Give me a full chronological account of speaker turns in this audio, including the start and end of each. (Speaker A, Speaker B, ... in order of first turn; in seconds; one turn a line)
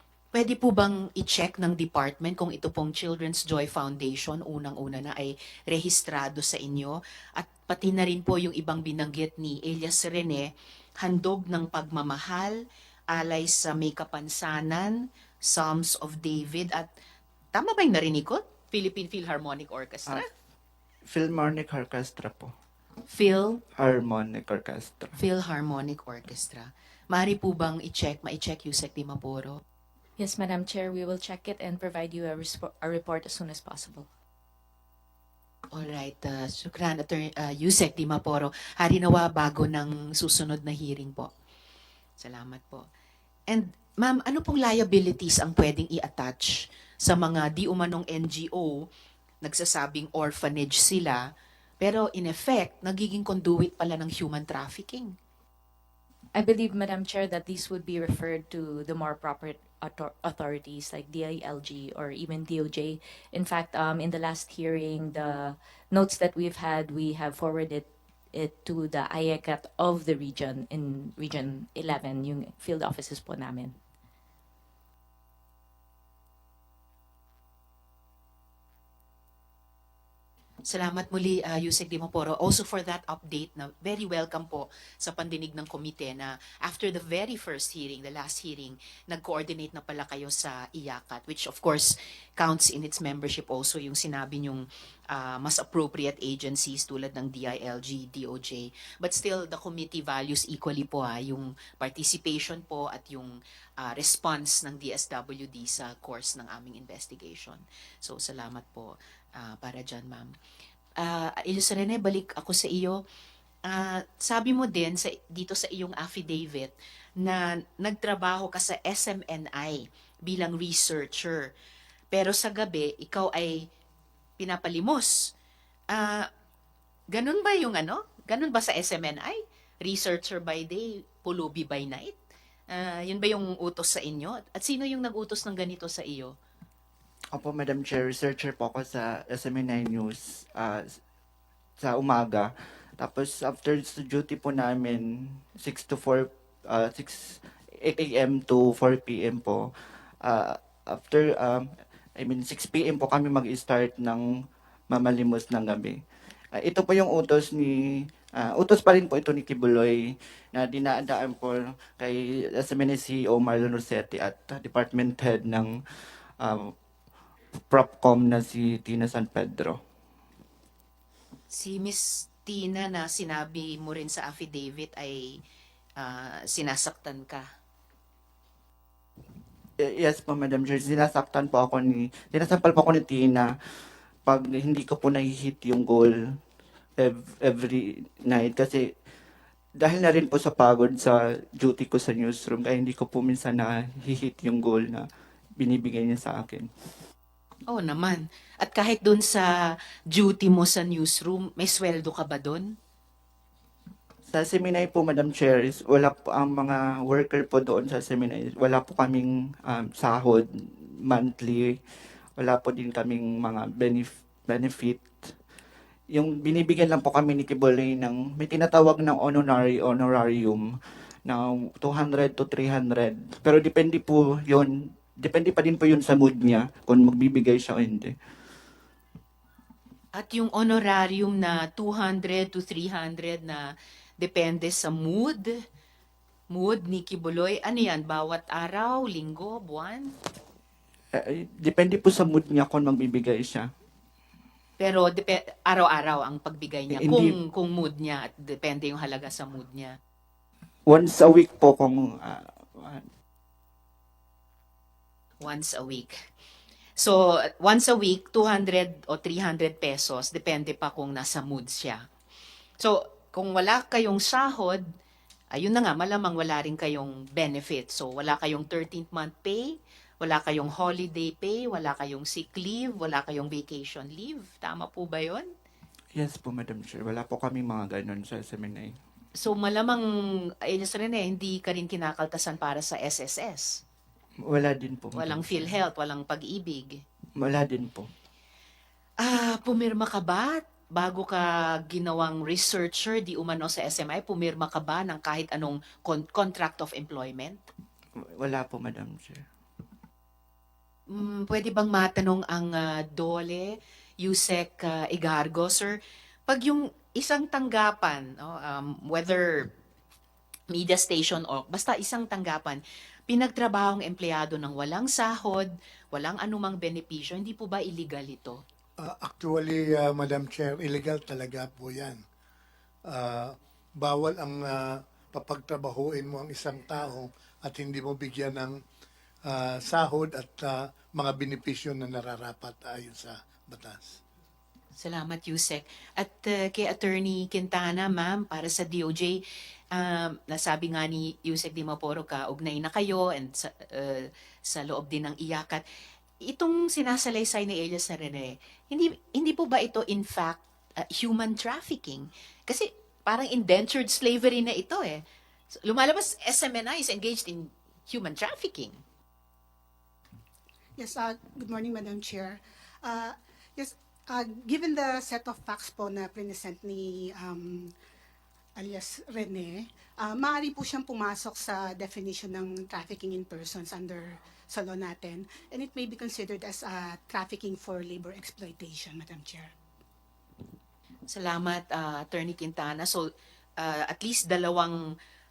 Speaker A: 0.3-16.9
Speaker A: 17.5-20.3
Speaker B: 21.1-22.5
Speaker A: 23.1-23.6
Speaker B: 23.8-25.2
Speaker A: 25.2-29.6
Speaker C: 30.2-34.1
Speaker A: 35.7-41.3
Speaker A: 42.2-42.9
Speaker A: 43.5-48.9
Speaker A: 49.4-51.2
Speaker A: 51.8-55.1
Speaker C: 56.3-73.8
Speaker A: 80.7-110.3
Speaker A: 111.0-113.0
Speaker A: 113.7-121.5
Speaker A: 122.1-123.7
Speaker A: 124.4-125.3
Speaker A: 125.9-126.3
Speaker A: 127.1-132.2
Speaker A: 132.7-136.4
Speaker B: 137.3-141.0
Speaker B: 141.8-149.7
Speaker B: 150.2-154.3
Speaker B: 154.9-156.0
Speaker B: 156.6-165.7
Speaker B: 166.4-166.7
Speaker B: 167.7-169.8
Speaker A: 171.5-175.4
Speaker A: 176.0-177.5
Speaker B: 179.8-183.5
Speaker B: 184.3-186.2
Speaker B: 187.0-188.9
Speaker B: 189.8-195.1
Speaker B: 195.6-196.7
Speaker A: 197.7-202.8
Speaker B: 204.3-211.8
Speaker B: 212.4-215.3
Speaker B: 216.1-220.7
Speaker B: 221.3-228.2
Speaker A: 230.1-235.6
Speaker A: 236.5-240.2
Speaker B: 241.1-243.7
Speaker A: 244.8-250.0
Speaker B: 246.9-247.3
Speaker B: 250.9-253.1
Speaker A: 255.4-256.2
Speaker A: 257.0-262.1
Speaker A: 262.8-264.9
Speaker A: 265.5-275.5
Speaker B: 276.1-279.0
Speaker A: 279.4-283.8
Speaker B: 284.4-285.7
Speaker A: 285.2-287.0
Speaker B: 287.4-288.1
Speaker A: 289.2-297.6
Speaker B: 298.2-299.5
Speaker A: 301.1-309.7
Speaker A: 310.7-318.6
Speaker D: 319.0-322.2
Speaker D: 323.1-328.8
Speaker D: 329.4-334.2
Speaker A: 334.9-345.8
Speaker A: 346.4-359.0
Speaker E: 361.0-367.9
Speaker E: 368.8-379.7
Speaker A: 381.3-385.1